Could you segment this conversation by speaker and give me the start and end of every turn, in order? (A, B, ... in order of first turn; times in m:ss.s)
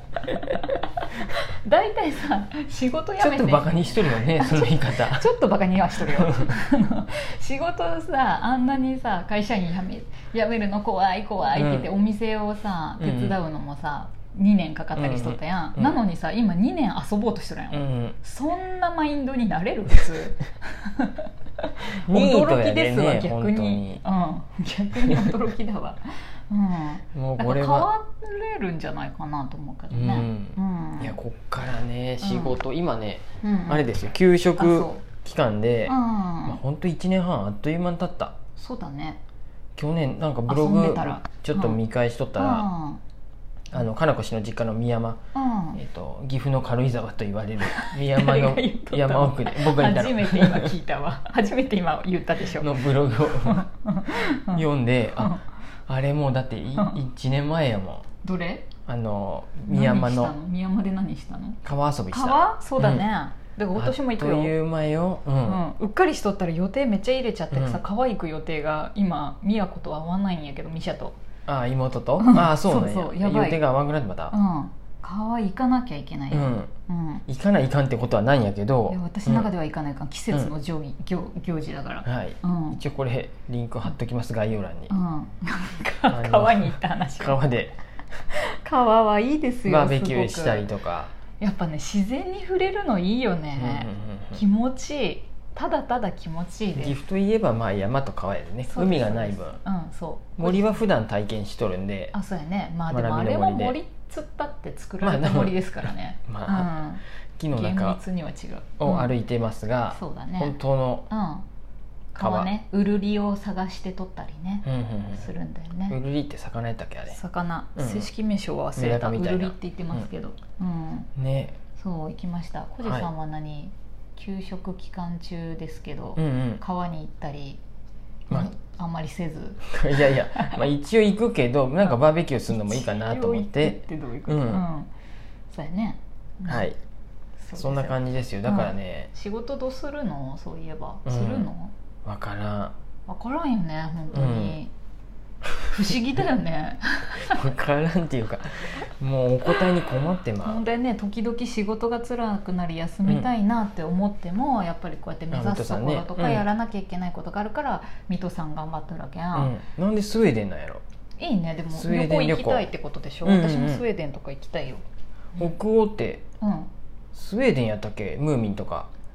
0:00.2-0:31.2 A
0:03.2-0:05.3 B
0:05.9-0:06.5 B
0:11.6-0:11.9 B
0:13.0-0:13.4 B
0:15.0-0:16.0 B
0:17.7-0:18.2 B
0:22.0-0:24.0 B
0:25.0-0:25.4 B
0:27.1-0:27.9 B
0:29.9-0:38.4 B
0:32.2-0:32.6 A
0:33.4-0:33.8 A
0:34.6-0:35.0 A
0:35.9-0:36.6 A
0:38.6-0:39.2 A
0:39.8-0:42.7 B
0:40.4-0:41.8 A
0:42.4-0:43.0 A
0:43.7-0:45.2 B
0:45.3-0:45.8 A
0:45.7-0:50.7 B
0:47.6-0:54.6 A
0:52.5-0:53.6 B
0:54.5-0:58.1 B
0:55.2-0:55.4 A
0:58.2-0:58.7 A
0:58.9-1:00.3 B
0:59.6-1:04.5 A
1:01.6-1:03.0 B
1:03.7-1:05.6 B
1:05.4-1:11.2 A
1:07.5-1:07.8 B
1:11.5-1:14.3 B
1:12.2-1:13.6 A
1:14.3-1:17.2 A
1:16.3-1:16.7 B
1:17.3-1:19.5 B
1:18.9-1:22.8 A
1:22.0-1:24.9 B
1:24.9-1:27.4 A
1:26.1-1:27.7 B
1:28.3-1:30.7 A
1:29.7-1:31.1 B
1:31.4-1:37.0 A
1:33.5-1:34.4 B
1:36.7-1:39.6 B
1:38.6-1:40.8 A
1:40.4-1:42.1 B
1:42.1-1:49.1 A
1:42.9-1:43.8 B
1:45.0-1:46.7 B
1:47.4-1:48.0 B
1:48.8-1:51.1 B
1:49.9-1:50.6 A
1:51.1-1:51.4 A
1:52.1-1:56.0 A
1:52.2-1:52.5 B
1:54.6-1:55.3 B
1:55.9-1:57.2 B
1:57.1-2:01.1 A
1:57.8-1:58.1 B
1:58.8-2:00.0 B
2:01.2-2:01.6 B
2:01.8-2:07.6 A
2:02.8-2:03.1 B
2:06.2-2:06.6 B
2:08.3-2:10.6 A
2:09.6-2:14.6 B
2:12.5-2:14.9 A
2:15.5-2:16.7 A
2:16.4-2:16.8 B
2:17.4-2:21.7 A
2:17.6-2:19.1 B
2:21.0-2:21.5 B
2:22.0-2:22.7 B
2:23.1-2:24.7 A
2:24.1-2:24.6 B
2:25.7-2:27.5 A
2:27.2-2:30.6 B
2:30.4-2:39.5 A
2:35.3-2:36.4 B
2:39.3-2:40.8 B
2:41.2-2:44.8 A
2:41.7-2:42.7 B
2:43.2-2:43.8 B
2:45.4-2:46.2 B
2:46.4-2:46.7 A
2:47.1-2:48.9 B